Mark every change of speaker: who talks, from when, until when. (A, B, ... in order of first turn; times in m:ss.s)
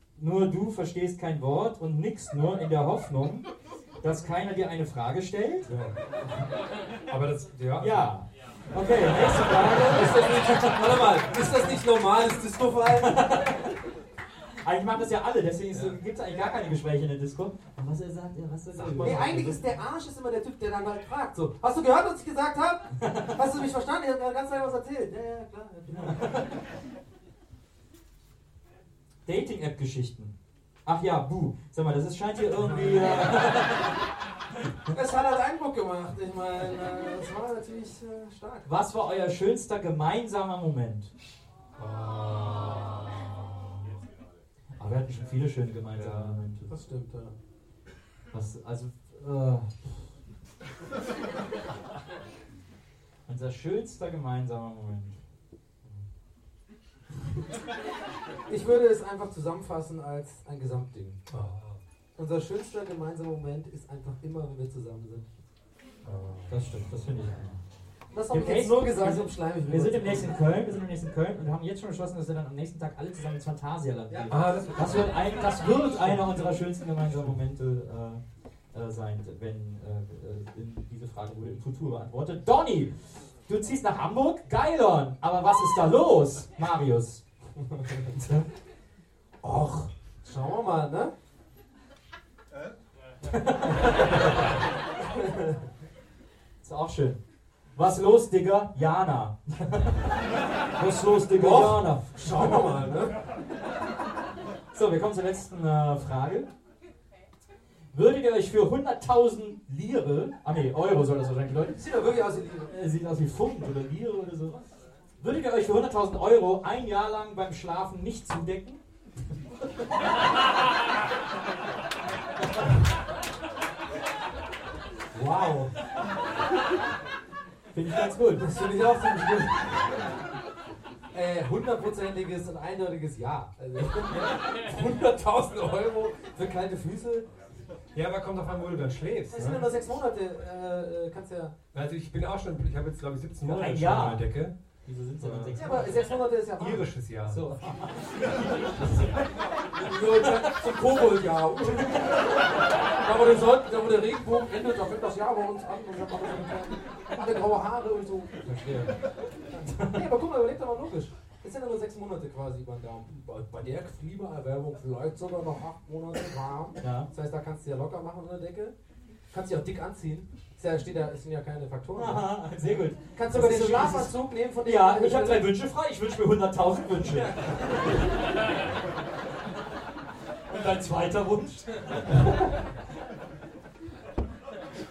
0:00.2-0:03.5 A
0:04.0-0:05.7 A
0:05.7-0:06.0 B
0:07.1-0:08.1 B
0:07.8-0:11.2 A
0:09.7-0:13.2 C
0:13.0-0:13.7 A
0:14.6-0:19.6 A
0:18.7-0:19.3 B
0:19.0-0:26.4 C
0:23.0-0:23.3 A
0:25.9-0:26.3 A
0:29.2-0:30.3 A
0:30.8-0:33.7 A
0:32.7-0:33.2 B
0:32.7-0:33.5 C
0:34.9-0:38.7 C
0:38.6-0:41.1 A
0:41.8-0:43.7 B
0:44.8-0:46.6 A
0:45.9-0:46.4 B
0:46.6-0:47.4 C
0:48.3-0:50.1 A
0:53.3-0:55.2 A
0:58.5-1:01.2 C
1:01.3-1:01.8 B
1:02.2-1:05.3 C
1:06.0-1:07.0 B
1:06.5-1:07.6 A
1:08.1-1:10.3 C
1:08.3-1:18.2 A
1:14.3-1:15.3 B
1:18.7-1:27.2 A
1:28.1-1:28.5 A
1:29.4-1:31.1 C
1:33.2-1:33.9 A
1:35.1-1:35.6 C
1:36.6-1:37.2 A
1:37.7-1:40.1 A
1:40.8-1:42.7 A
1:41.4-1:43.1 C
1:42.4-1:42.8 B
1:44.7-1:46.5 A
1:47.9-1:52.0 A
1:51.8-1:52.7 C
1:52.7-1:54.6 A
1:55.2-1:58.8 A
2:05.1-2:05.7 C
2:07.7-2:08.4 A
2:08.4-2:10.0 C
2:11.1-2:17.3 C
2:17.9-2:19.6 B
2:19.3-2:21.5 C
2:21.7-2:27.4 B
2:23.4-2:26.2 A
2:25.5-2:27.0 C
2:27.2-2:28.6 A
2:28.8-2:29.2 B
2:29.8-2:32.1 C
2:33.0-2:38.4 C
2:38.4-2:39.0 B
2:39.5-2:48.7 C
2:39.7-2:39.9 A
2:46.8-2:47.1 A
2:49.3-2:52.4 C
2:52.0-2:57.9 A
2:53.0-2:55.5 C
3:00.5-3:02.2 A